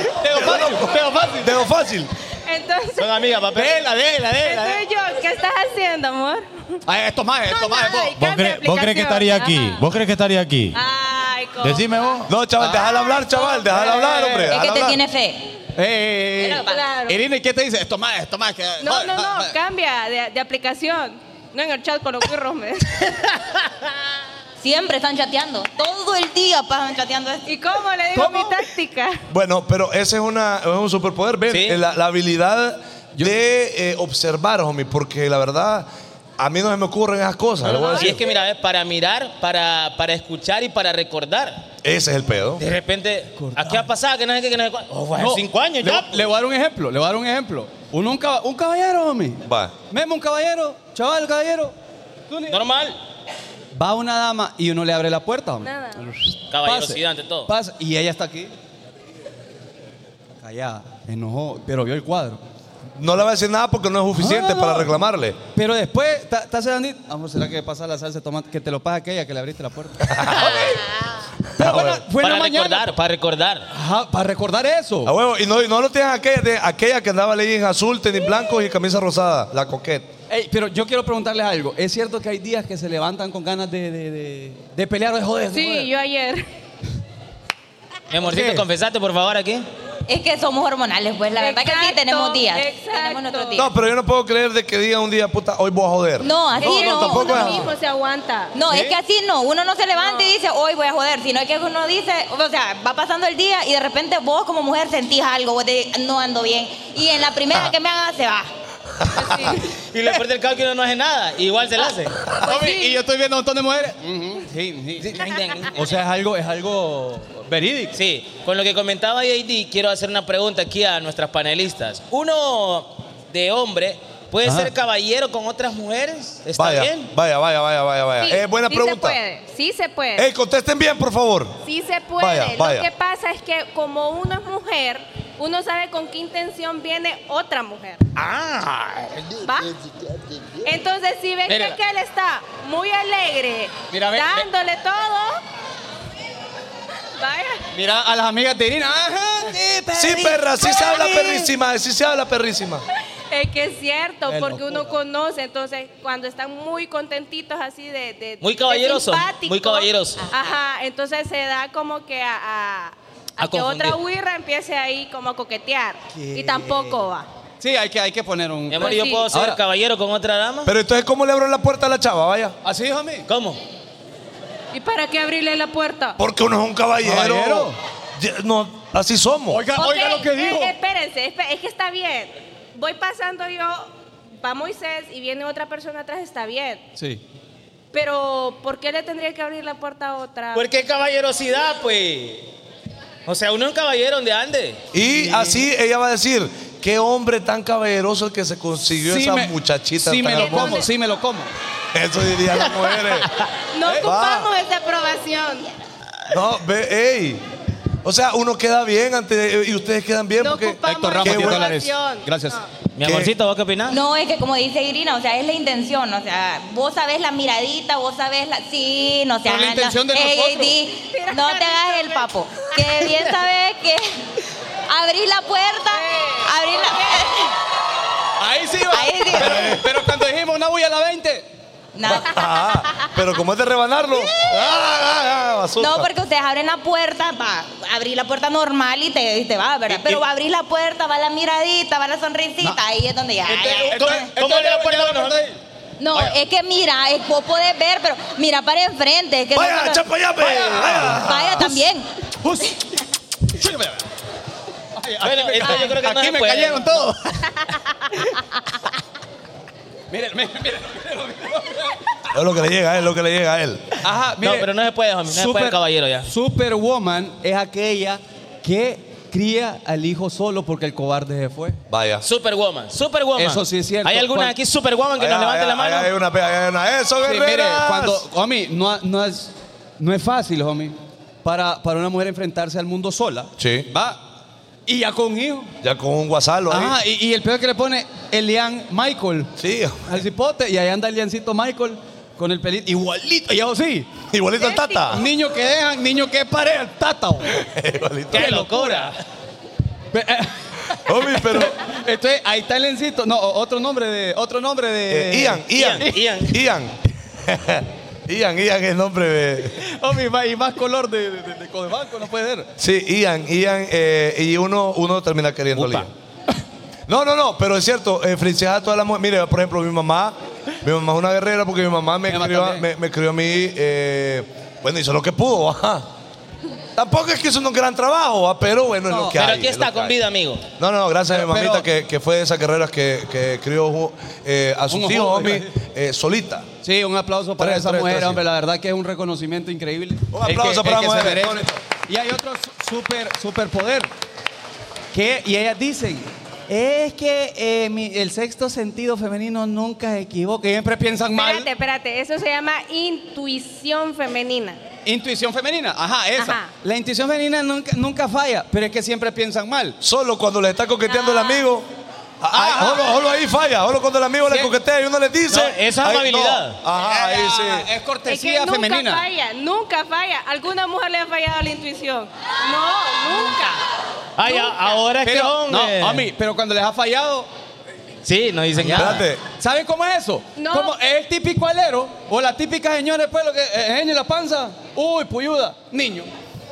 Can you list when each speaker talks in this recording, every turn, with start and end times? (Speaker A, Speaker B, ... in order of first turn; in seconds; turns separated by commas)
Speaker A: 0.2-1.6, Speaker B: 0.3-2.1, Speaker C: 2.5-3.1, Speaker D: 3.0-3.9, Speaker A: 3.5-4.7, Speaker C: 4.4-6.8, Speaker A: 6.9-8.2, Speaker C: 7.5-9.8, Speaker E: 8.2-10.8, Speaker C: 10.7-12.1, Speaker E: 11.6-12.3, Speaker B: 12.3-15.0, Speaker A: 12.6-12.9, Speaker C: 12.6-13.7, Speaker A: 13.6-14.6, Speaker F: 14.5-15.5, Speaker A: 15.8-19.5, Speaker F: 16.4-16.8, Speaker C: 16.6-17.2, Speaker C: 18.8-23.1, Speaker F: 24.6-27.5, Speaker C: 27.4-29.2, Speaker A: 28.1-28.6, Speaker B: 29.3-35.9, Speaker D: 31.5-31.8, Speaker B: 36.4-38.2, Speaker D: 37.6-41.6, Speaker B: 41.8-42.6, Speaker D: 42.6-46.3, Speaker A: 43.4-43.8, Speaker A: 45.1-51.7, Speaker B: 49.4-49.7, Speaker A: 52.3-52.6, Speaker D: 52.5-53.0, Speaker A: 53.7-58.5, Speaker C: 55.6-56.1, Speaker D: 56.5-57.5, Speaker A: 60.4-62.4, Speaker B: 63.0-65.4, Speaker A: 64.2-64.9, Speaker A: 65.5-70.9, Speaker B: 70.0-70.8, Speaker B: 71.5-72.0, Speaker A: 71.6-72.9, Speaker D: 72.2-73.7, Speaker A: 73.7-75.1, Speaker B: 75.0-80.1, Speaker A: 80.3-85.9, Speaker C: 85.5-86.4, Speaker D: 88.1-89.7, Speaker A: 88.2-88.6, Speaker F: 90.1-93.7, Speaker C: 91.4-93.6, Speaker B: 93.5-97.7, Speaker F: 96.2-97.7, Speaker C: 96.6-98.5, Speaker F: 98.5-108.5, Speaker A: 98.7-99.0, Speaker C: 99.9-100.3, Speaker B: 109.0-109.3, Speaker C: 109.1-109.7, Speaker D: 109.9-112.2, Speaker A: 112.3-115.2, Speaker C: 112.4-113.0, Speaker D: 115.0-115.9, Speaker A: 115.7-117.9, Speaker D: 117.9-127.1, Speaker A: 124.4-124.7, Speaker B: 126.6-129.2, Speaker C: 128.2-130.3, Speaker B: 130.2-131.6, Speaker C: 131.6-138.0, Speaker B: 132.2-132.9, Speaker D: 138.1-139.3, Speaker C: 139.4-139.7, Speaker C: 140.6-145.4, Speaker A: 141.5-141.8, Speaker A: 143.9-144.5, Speaker C: 147.2-147.7, Speaker A: 147.7-151.4, Speaker B: 149.9-152.8, Speaker C: 150.6-151.4, Speaker C: 153.3-167.3, Speaker A: 154.2-154.9, Speaker D: 158.4-160.3, Speaker D: 163.4-164.0, Speaker A: 166.1-167.0, Speaker A: 167.6-169.6, Speaker D: 168.7-170.7, Speaker C: 168.8-169.2, Speaker B: 170.6-172.5, Speaker A: 172.6-173.3, Speaker D: 173.3-173.6, Speaker C: 174.7-176.2, Speaker B: 176.2-179.6, Speaker A: 177.0-177.8, Speaker A: 179.5-180.7, Speaker C: 179.7-183.9, Speaker C: 184.4-186.8, Speaker A: 187.0-187.2, Speaker C: 187.9-190.7, Speaker D: 190.5-192.5, Speaker D: 193.2-194.8, Speaker B: 194.9-200.8, Speaker A: 195.1-195.6, Speaker A: 199.0-201.5, Speaker C: 200.4-200.9, Speaker B: 201.9-203.3, Speaker C: 203.7-205.7, Speaker A: 203.8-204.1, Speaker B: 204.0-204.5, Speaker B: 206.3-207.4, Speaker B: 208.0-211.7, Speaker C: 210.4-212.7, Speaker A: 210.8-212.6, Speaker D: 213.0-214.0, Speaker B: 213.0-213.3, Speaker F: 213.9-224.2, Speaker A: 219.4-220.8, Speaker C: 221.1-222.3, Speaker F: 224.9-227.5, Speaker C: 225.9-227.2, Speaker A: 228.4-231.5, Speaker F: 228.9-229.8, Speaker B: 229.3-229.8, Speaker F: 231.9-232.8, Speaker B: 232.0-236.1, Speaker F: 235.8-244.3, Speaker D: 239.9-240.2, Speaker A: 243.4-245.6, Speaker D: 243.5-245.4, Speaker F: 246.0-250.0, Speaker B: 249.5-251.7, Speaker A: 250.4-251.8, Speaker F: 250.8-252.1, Speaker A: 252.4-252.8, Speaker A: 253.5-254.1, Speaker A: 254.9-258.3, Speaker D: 255.2-257.1, Speaker A: 260.1-262.0, Speaker B: 262.3-264.0, Speaker A: 264.0-264.7, Speaker D: 264.4-266.3, Speaker A: 265.3-271.8, Speaker B: 271.9-272.2, Speaker D: 272.2-276.1, Speaker A: 273.4-274.5, Speaker B: 275.2-278.2, Speaker A: 277.2-284.2, Speaker B: 283.6-283.9, Speaker A: 284.9-285.7, Speaker B: 285.8-286.9, Speaker A: 286.7-289.5, Speaker B: 289.6-290.2, Speaker A: 290.1-294.1, Speaker B: 294.3-295.2, Speaker C: 294.6-295.2, Speaker A: 295.1-297.5, Speaker B: 297.5-298.6, Speaker D: 298.3-299.2, Speaker A: 298.3-299.1, Speaker A: 300.1-306.2, Speaker B: 301.0-301.8, Speaker B: 305.1-309.9, Speaker D: 305.7-306.5, Speaker A: 309.8-312.7, Speaker B: 312.8-316.1, Speaker A: 315.7-316.1, Speaker B: 317.1-326.1, Speaker A: 322.3-322.8, Speaker B: 326.9-330.1, Speaker A: 329.1-329.4, Speaker D: 329.3-330.6, Speaker B: 330.8-336.7, Speaker A: 331.3-331.9, Speaker A: 334.9-335.7, Speaker A: 336.8-344.1, Speaker B: 337.6-338.4, Speaker B: 340.3-341.7, Speaker A: 345.1-351.7, Speaker C: 351.3-354.8, Speaker A: 355.0-360.0, Speaker C: 356.4-356.7, Speaker B: 360.0-361.9, Speaker C: 361.1-361.6, Speaker B: 362.4-367.9, Speaker A: 362.5-363.0, Speaker D: 365.5-366.8, Speaker A: 367.0-369.2, Speaker C: 368.2-373.8, Speaker D: 374.4-376.2, Speaker C: 374.5-375.0, Speaker A: 375.2-377.5, Speaker D: 378.2-379.2, Speaker A: 378.8-386.3, Speaker B: 378.8-379.4, Speaker C: 380.6-380.9